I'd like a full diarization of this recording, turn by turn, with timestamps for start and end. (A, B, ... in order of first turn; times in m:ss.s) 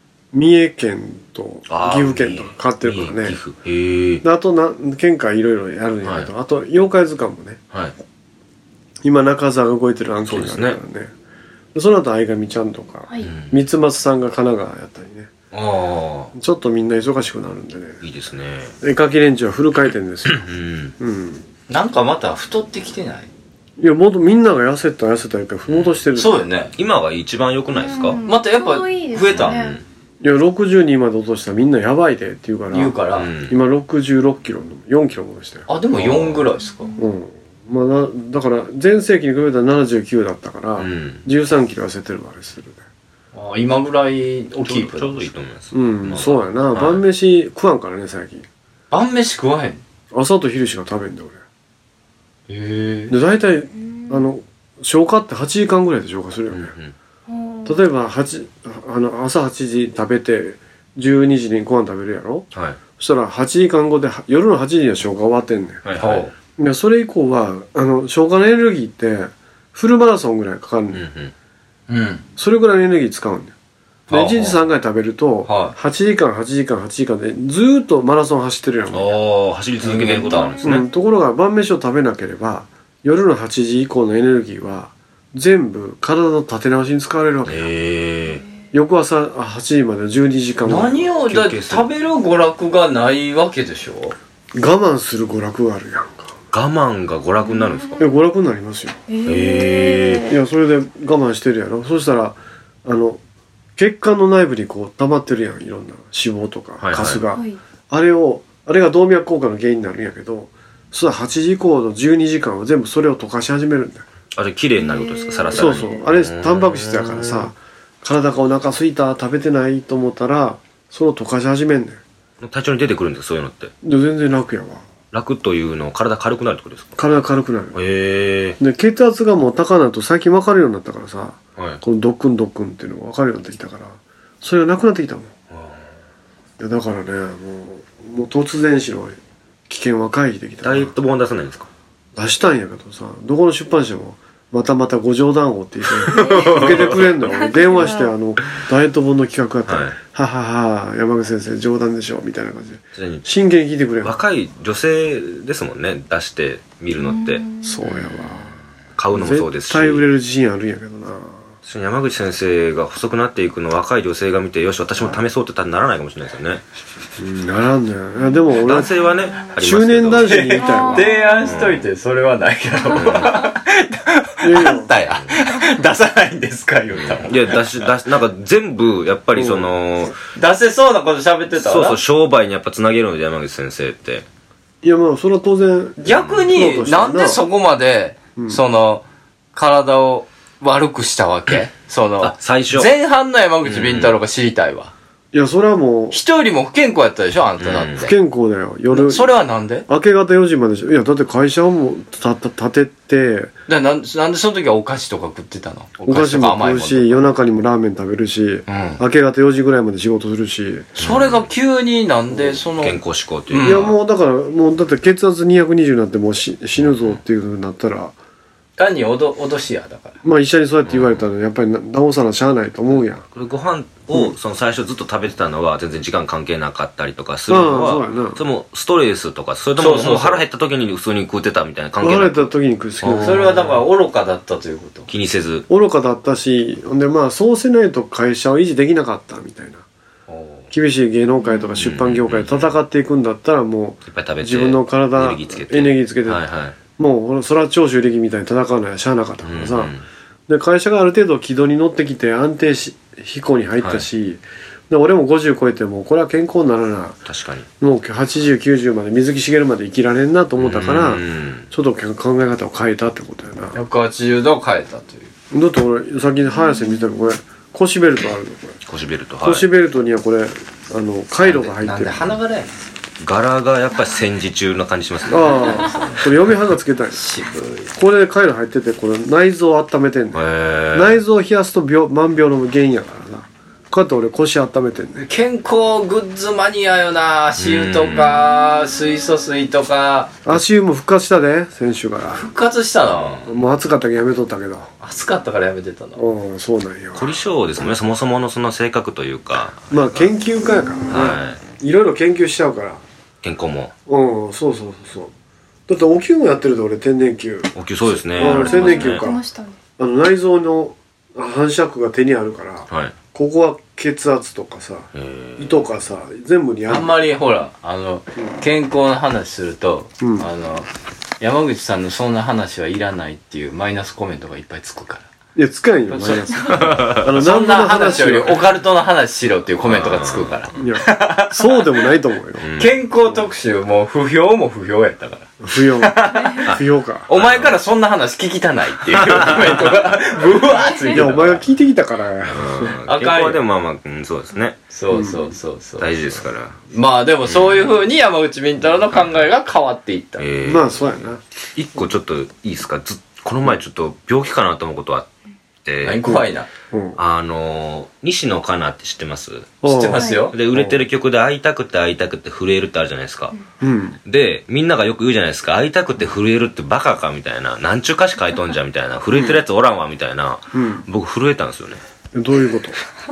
0:00.3-0:03.4 A
0:01.7-0:04.2 B
0:04.2-0:07.6 A
0:06.0-0:06.3 B
0:09.0-0:11.1 A
0:10.3-0:10.8 B
0:11.7-0:15.3 A
0:13.2-0:13.6 B
0:15.5-0:16.3 B
0:16.3-0:18.0 A
0:18.0-0:18.7 B
0:18.8-0:20.5 A
0:20.3-0:20.9 B
0:21.0-0:21.4 A
0:21.7-0:23.3 C
0:23.8-0:26.5 A
0:25.7-0:25.9 B
0:26.2-0:26.7 C
0:26.8-0:28.2 B
0:27.7-0:29.8 D
0:28.3-0:29.6 C
0:29.3-0:29.8 B
0:30.2-0:35.7 A
0:32.7-0:33.3 C
0:33.2-0:33.6 B
0:35.7-0:36.9 C
0:36.0-0:36.4 B
0:36.8-0:37.1 D
0:37.0-0:42.8 A
0:40.8-0:41.3 B
0:43.3-0:45.3 C
0:44.6-0:47.0 B
0:45.7-0:48.4 A
0:48.9-0:49.8 C
0:50.1-0:51.4 A
0:52.5-0:53.2 C
0:53.1-0:56.7 A
0:53.8-0:54.3 D
0:56.5-0:56.9 B
0:57.3-0:57.8 D
0:57.7-1:02.5 A
1:02.5-1:02.8 B
1:03.0-1:05.8 A
1:05.8-1:06.3 B
1:06.0-1:06.3 C
1:06.6-1:11.0 A
1:10.9-1:11.3 B
1:11.9-1:12.2 C
1:12.4-1:13.5 A
1:14.1-1:14.6 C
1:14.1-1:19.2 A
1:15.5-1:15.8 C
1:18.9-1:20.9 B
1:19.8-1:20.5 C
1:19.9-1:27.7 A
1:20.3-1:20.7 D
1:27.5-1:28.4 B
1:28.7-1:31.1 A
1:30.6-1:34.2 C
1:31.3-1:31.9 B
1:34.5-1:36.3 A
1:36.5-1:38.0 B
1:37.4-1:38.1 D
1:38.0-1:39.0 A
1:39.1-1:40.4 D
1:39.3-1:40.3 B
1:40.3-1:43.2 A
1:43.8-1:54.1 A
1:46.8-1:47.2 B
1:47.3-1:47.6 D
1:54.3-1:57.5 B
1:54.8-1:56.0 D
1:55.5-2:02.0 A
2:02.4-2:03.7 B
2:03.8-2:04.8 A
2:05.1-2:07.0 B
2:07.0-2:07.8 A
2:07.7-2:08.6 B
2:08.6-2:15.3 A
2:15.5-2:15.8 B
2:16.6-2:19.2 A
2:19.7-2:20.9 A
2:20.6-2:21.7 B
2:22.2-2:34.2 A
2:26.2-2:27.0 B
2:26.3-2:26.6 D
2:27.5-2:28.1 D
2:29.7-2:30.0 B
2:33.0-2:33.2 B
2:34.0-2:40.0 B
2:37.0-2:37.8 D
2:37.6-2:38.6 A
2:39.1-2:41.4 A
2:41.6-2:46.6 B
2:47.2-2:48.9 A
2:48.6-2:50.6 B
2:49.6-2:51.1 A
2:50.2-2:57.8 C
2:50.6-2:51.4 D
2:51.4-2:51.9 B
2:52.9-2:53.5 B
2:54.4-2:54.9 A
2:57.0-3:00.2 B
2:59.4-2:59.7 A
3:00.4-3:02.0 C
3:01.6-3:04.3 B
3:04.8-3:07.4 A
3:06.0-3:14.9 C
3:06.1-3:06.4 B
3:12.2-3:12.9 B
3:13.6-3:14.1 B
3:15.3-3:16.2 A
3:16.1-3:18.1 C
3:17.6-3:18.0 B
3:18.0-3:19.3 A
3:18.9-3:19.9 C
3:19.9-3:23.5 A
3:23.7-3:27.3 C
3:26.1-3:30.9 A
3:28.7-3:29.0 C
3:31.0-3:31.5 B
3:31.0-3:33.9 C
3:32.8-3:33.9 B
3:33.6-3:38.2 A
3:36.8-3:37.2 B
3:38.8-3:40.2 C
3:40.2-3:43.2 A
3:40.9-3:41.2 B
3:43.3-3:53.8 B
3:47.5-3:48.4 A
3:49.8-3:50.4 C
3:52.0-3:53.6 A
3:53.2-3:55.1 C
3:55.1-3:55.7 B
3:55.7-3:59.8 A
4:00.3-4:00.7 C
4:00.7-4:06.4 A
4:01.4-4:01.7 D
4:01.8-4:02.7 B
4:04.1-4:06.8 B
4:07.0-4:09.9 A
4:09.4-4:10.0 B
4:10.5-4:17.2 A
4:13.8-4:14.0 B
4:17.3-4:17.7 B
4:17.8-4:23.8 A
4:20.6-4:21.7 B
4:23.8-4:25.3 C
4:25.5-4:28.8 A
4:28.9-4:29.7 B
4:29.4-4:32.4 A
4:31.4-4:32.9 C
4:33.2-4:35.9 B
4:35.3-4:37.2 A
4:35.3-4:36.3 C
4:37.1-4:37.9 C
4:38.0-4:45.3 A
4:40.3-4:41.2 B
4:45.2-4:50.4 C
4:47.6-4:48.4 B
4:50.5-4:52.5 A
4:52.3-4:53.4 C
4:53.1-4:53.5 B
4:53.4-4:54.9 A
4:55.0-4:56.2 C
4:56.2-4:57.4 A
4:57.2-5:00.3 B
4:59.9-5:03.0 A
5:01.1-5:01.6 B
5:03.4-5:03.9 B
5:04.1-5:05.3 A
5:05.9-5:07.7 A
5:07.8-5:09.2 B
5:08.3-5:09.4 A
5:08.4-5:09.8 D
5:10.0-5:17.1 A
5:12.9-5:13.2 B
5:15.2-5:15.9 B
5:16.9-5:20.9 C
5:20.2-5:20.5 A
5:21.4-5:25.3 C
5:25.6-5:28.6 A
5:26.1-5:31.9 C
5:26.8-5:27.3 B
5:29.9-5:30.6 B
5:30.8-5:32.6 A
5:32.6-5:32.9 B
5:32.8-5:36.8 C
5:35.6-5:37.3 A
5:36.7-5:37.8 B
5:37.3-5:41.6 C
5:39.2-5:40.2 B
5:41.1-5:43.0 A
5:42.5-5:44.8 B
5:43.0-5:43.6 C
5:44.9-5:46.2 C
5:45.1-5:45.5 A
5:46.0-5:46.8 B
5:46.9-5:50.4 C
5:47.4-5:47.9 B
5:50.4-5:51.1 B
5:50.6-5:51.4 A
5:51.8-5:55.3 B
5:55.8-5:56.4 B
5:56.0-5:56.7 C
5:56.2-5:57.2 A
5:57.2-6:03.6 B
5:59.8-6:01.0 A
5:59.9-6:00.6 C
6:00.2-6:00.5 D
6:03.8-6:04.2 A
6:04.3-6:12.0 B
6:09.3-6:09.6 A
6:10.7-6:11.1 A
6:12.3-6:13.0 A